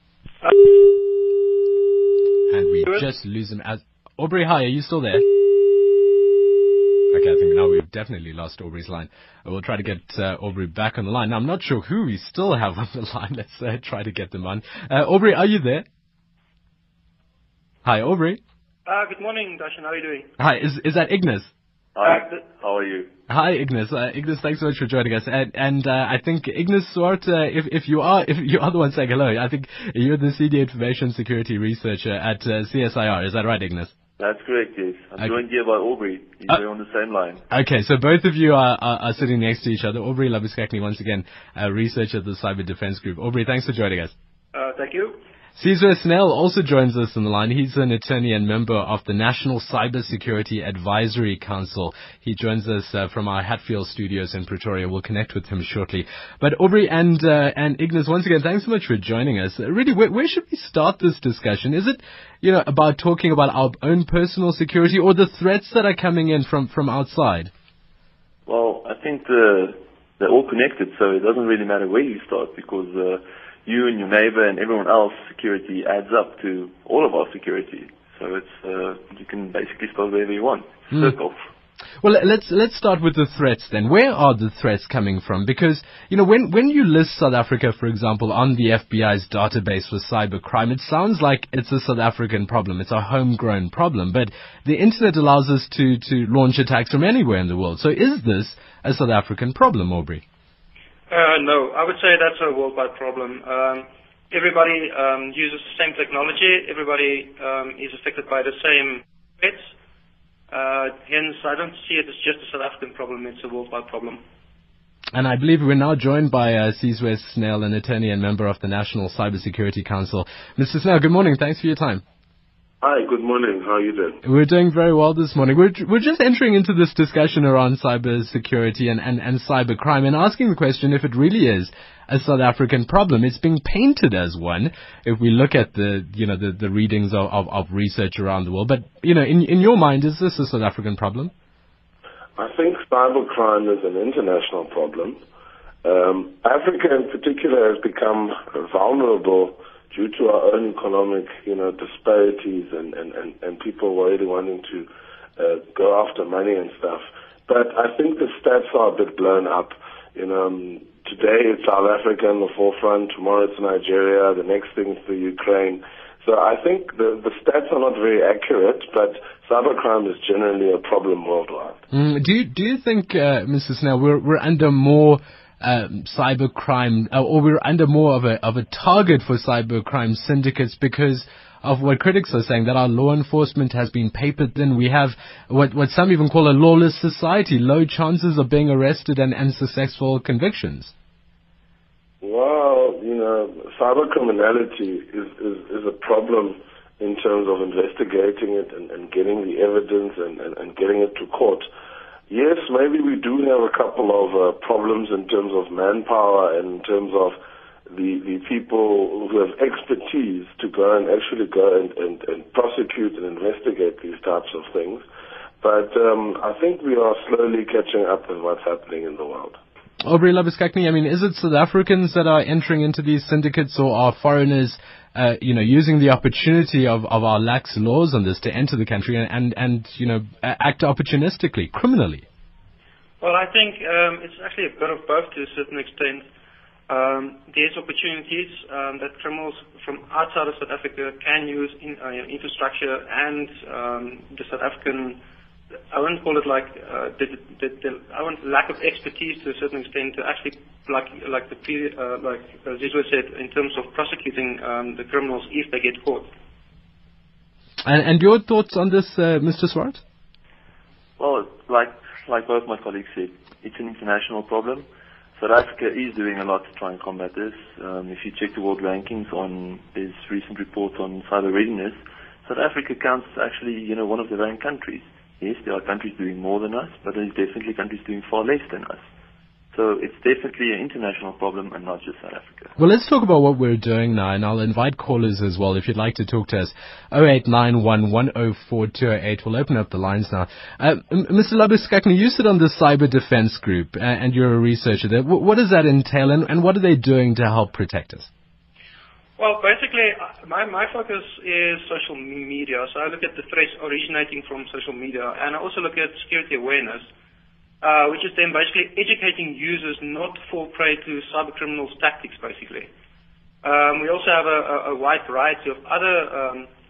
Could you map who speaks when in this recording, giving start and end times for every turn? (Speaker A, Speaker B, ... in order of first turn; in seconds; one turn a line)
Speaker A: 2.5-5.2
Speaker A: 7.1-15.8
Speaker A: 17.8-18.4
Speaker B: 18.9-20.3
Speaker A: 20.4-21.5
Speaker C: 21.9-23.1
Speaker A: 23.3-33.9
Speaker C: 34.2-37.4
Speaker A: 37.5-44.1
Speaker B: 44.5-45.2
Speaker A: 45.6-67.5
Speaker C: 68.5-81.4
Speaker A: 82.0-100.2
Speaker B: 101.1-109.7
Speaker B: 110.5-114.2
Speaker A: 115.1-122.0
Speaker D: 122.8-124.2
Speaker A: 124.2-141.3
Speaker D: 142.4-145.2
Speaker D: 145.8-171.8
Speaker A: 171.9-190.9
Speaker D: 192.2-201.7
Speaker D: 202.3-207.3
Speaker D: 207.9-215.0
Speaker D: 215.6-219.6
Speaker A: 220.0-232.2
Speaker B: 233.2-236.2
Speaker B: 236.9-245.2
Speaker B: 245.9-256.3
Speaker A: 257.8-260.0
Speaker C: 261.2-264.9
Speaker C: 265.4-279.0
Speaker C: 279.7-282.7
Speaker A: 282.8-298.3
Speaker B: 299.4-307.1
Speaker B: 307.8-312.9
Speaker B: 313.6-316.7